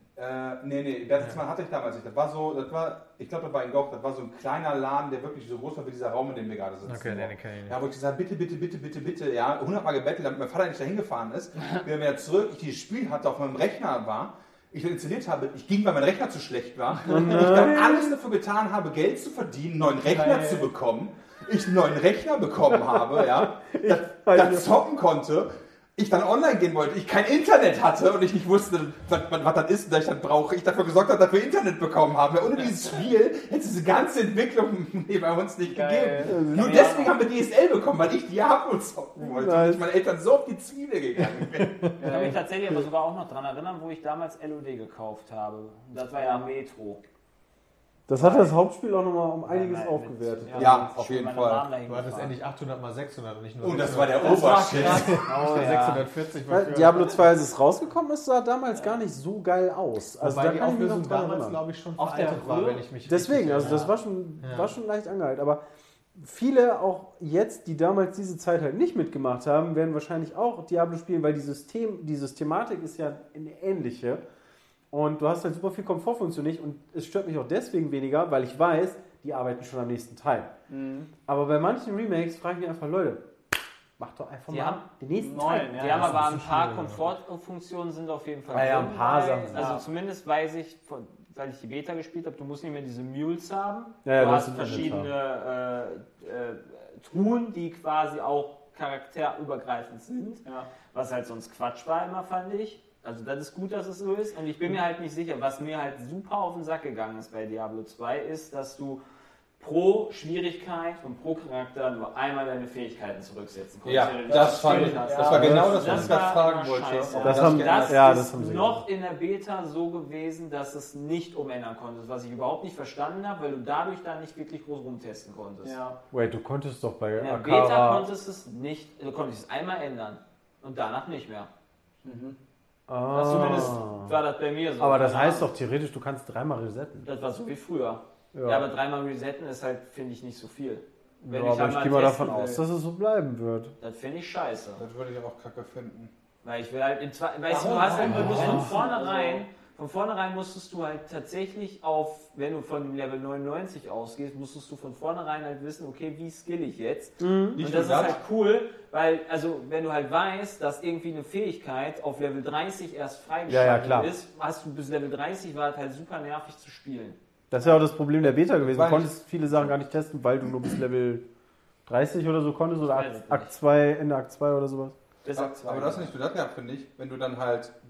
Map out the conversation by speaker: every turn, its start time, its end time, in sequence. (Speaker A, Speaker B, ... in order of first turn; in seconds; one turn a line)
Speaker A: 0.2-41.9
Speaker B: 6.8-7.8
Speaker C: 17.1-18.1
Speaker D: 19.9-20.7
Speaker C: 22.7-24.8
Speaker D: 35.6-36.3
Speaker C: 36.2-36.9
Speaker E: 36.5-37.2
Speaker C: 39.2-39.9
Speaker D: 42.0-42.5
Speaker E: 42.0-47.0
Speaker D: 46.2-46.5
Speaker C: 48.1-50.9
Speaker E: 48.1-48.5
Speaker E: 49.5-52.4
Speaker A: 50.6-51.7
Speaker B: 51.9-57.3
Speaker A: 53.6-55.2
Speaker D: 54.2-56.1
Speaker C: 56.5-61.6
Speaker B: 60.2-63.9
Speaker D: 62.0-62.8
Speaker C: 63.0-65.6
Speaker D: 63.6-63.9
Speaker B: 64.4-64.7
Speaker C: 66.1-74.2
Speaker C: 74.9-80.5
Speaker D: 80.7-81.1
Speaker C: 81.2-83.3
Speaker C: 84.0-86.2
Speaker E: 84.5-84.8
Speaker D: 85.2-86.2
Speaker E: 85.4-109.0
Speaker B: 85.9-87.1
Speaker C: 88.5-89.7
Speaker D: 89.5-89.8
Speaker C: 94.0-95.1
Speaker E: 109.6-125.8
Speaker A: 113.8-118.1
Speaker D: 114.0-115.9
Speaker C: 115.1-116.2
Speaker D: 117.1-117.4
Speaker C: 117.2-118.8
Speaker D: 125.6-126.0
Speaker C: 126.1-128.1
Speaker E: 127.2-131.5
Speaker D: 132.0-132.3
Speaker C: 132.9-134.2
Speaker D: 133.1-133.7
Speaker E: 133.1-135.5
Speaker C: 134.8-137.1
Speaker E: 137.0-142.6
Speaker C: 138.3-138.7
Speaker C: 141.2-143.7
Speaker E: 143.8-144.8
Speaker A: 144.8-146.1
Speaker E: 146.4-167.7
Speaker D: 147.5-149.4
Speaker A: 147.9-148.5
Speaker C: 148.0-148.7
Speaker C: 157.2-157.6
Speaker A: 157.5-158.2
Speaker C: 163.5-164.1
Speaker C: 167.5-171.2
Speaker A: 168.6-169.7
Speaker C: 171.8-174.9
Speaker E: 172.8-173.5
Speaker E: 175.2-176.1
Speaker A: 175.3-177.7